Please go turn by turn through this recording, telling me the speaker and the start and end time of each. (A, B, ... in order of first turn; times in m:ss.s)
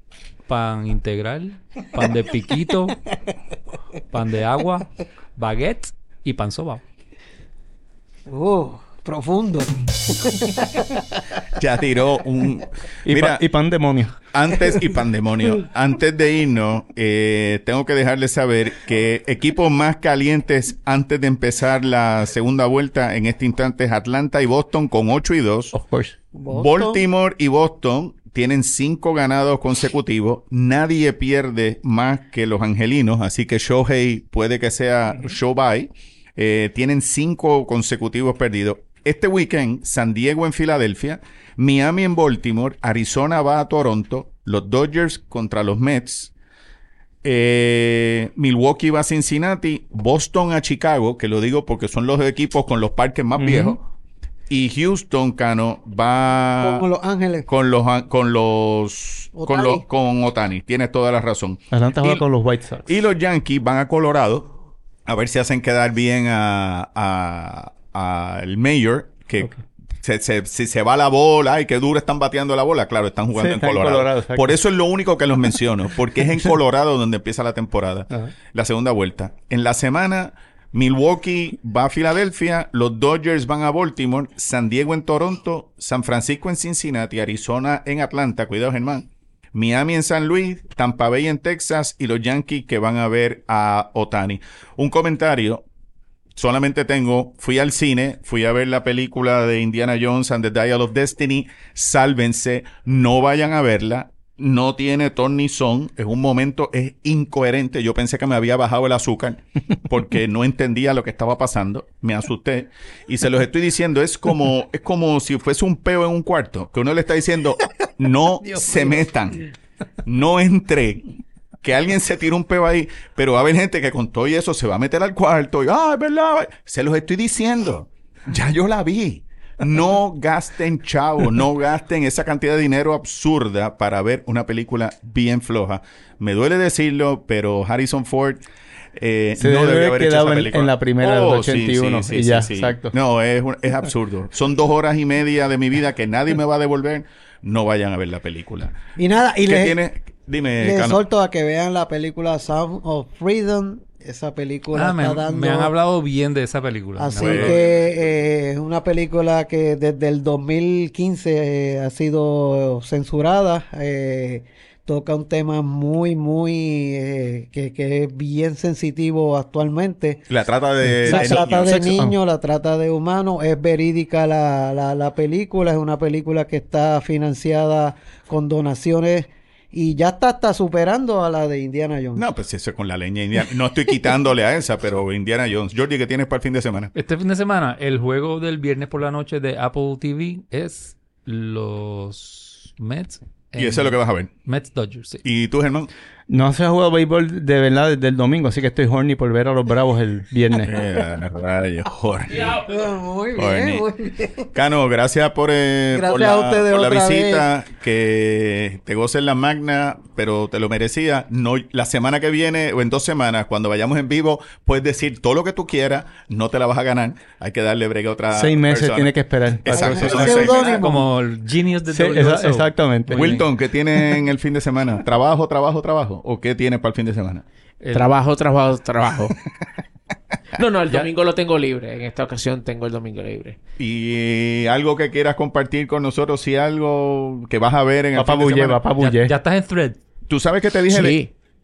0:00.5-0:03.0 A
0:04.1-0:06.8 A
0:08.3-0:11.0 B
0:11.6-0:13.4 C
0:13.0-0:14.1 D
0:14.3-0:25.7 C
0:25.7-0:26.2 D
0:26.3-0:27.0 B
0:26.5-0:46.3 C
0:47.2-0:53.8 C
0:53.4-0:53.8 D
0:54.5-0:56.8 C
0:56.6-0:57.4 B
0:57.5-1:02.2 C
0:59.4-0:59.8 B
1:01.7-1:02.9 D
1:02.8-1:04.5 C
1:05.0-1:35.6 C
1:13.3-1:14.6 D
1:36.4-1:59.5 C
1:58.5-1:59.0 B
2:00.0-2:18.4 C
2:19.0-2:28.8 C
2:19.4-2:22.9 D
2:29.0-2:29.8 B
2:29.4-2:31.0 C
2:30.6-2:35.7 B
2:34.7-2:37.6 A
2:37.0-2:50.3 B
2:37.1-2:37.6 C
2:50.3-2:51.9 C
2:50.8-2:52.2 D
2:51.0-3:02.2 B
3:02.2-3:06.9 C
3:06.9-3:15.2 A
3:13.6-3:14.3 C
3:15.2-3:15.9 C
3:16.3-3:20.7 D
3:20.6-3:22.6 C
3:22.3-3:22.6 E
3:22.6-3:24.5 B
3:23.3-3:23.9 C
3:24.5-3:40.8 C
3:25.9-3:27.4 B
3:38.3-3:40.6 D
3:39.7-3:41.1 B
3:39.9-3:43.4 A
3:41.9-3:43.4 D
3:43.1-3:47.4 C
3:47.8-3:48.1 A
3:47.9-3:49.3 E
3:50.6-3:53.6 E
3:53.8-3:58.8 C
3:58.1-3:59.3 D
3:59.0-4:00.0 A
4:00.3-4:01.2 C
4:00.9-4:01.3 E